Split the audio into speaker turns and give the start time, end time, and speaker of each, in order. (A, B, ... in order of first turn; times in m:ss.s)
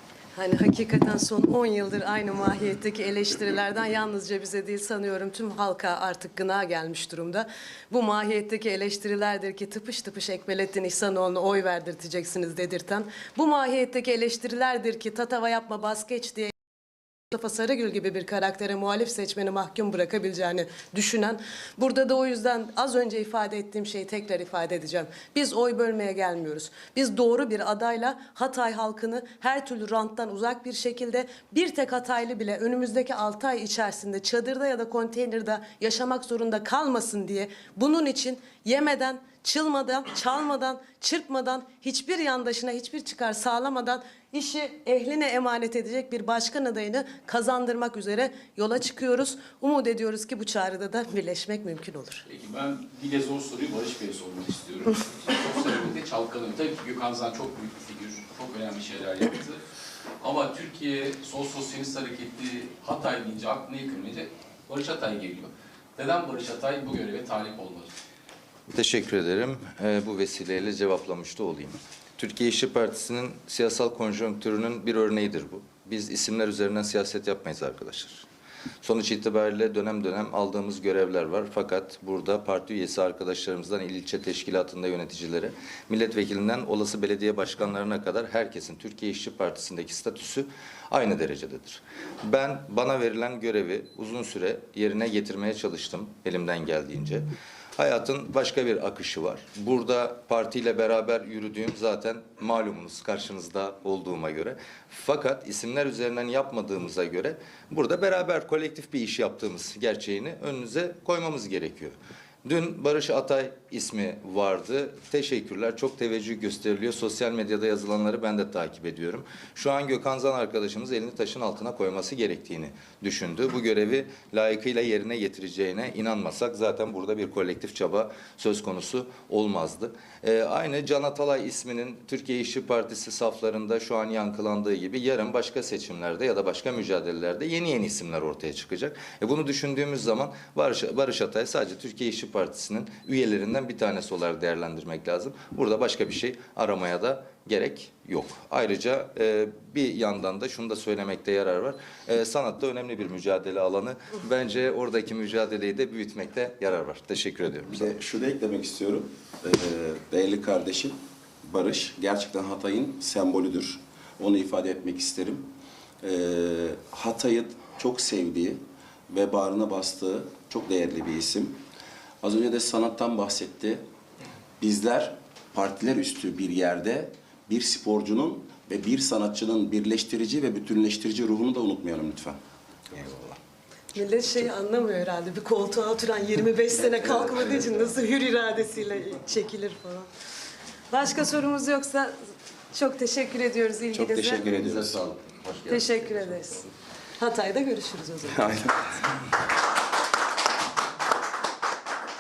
0:00.4-0:16.5 A
0:17.3-0:52.2 A
0:52.3-0:59.6 B
1:00.2-1:07.9 B
1:08.7-1:18.3 C
1:18.8-2:37.9 C
2:37.7-2:45.5 D
2:46.0-2:51.6 D
2:52.2-2:53.8 D
2:54.6-3:02.4 D
3:02.9-3:03.4 D
3:03.9-3:10.1 A
3:10.9-3:12.1 A
3:12.7-3:14.4 A
3:13.9-3:15.0 D
3:14.4-3:16.4 C
3:15.7-3:16.7 A
3:17.2-3:18.6 A
3:18.3-3:19.1 D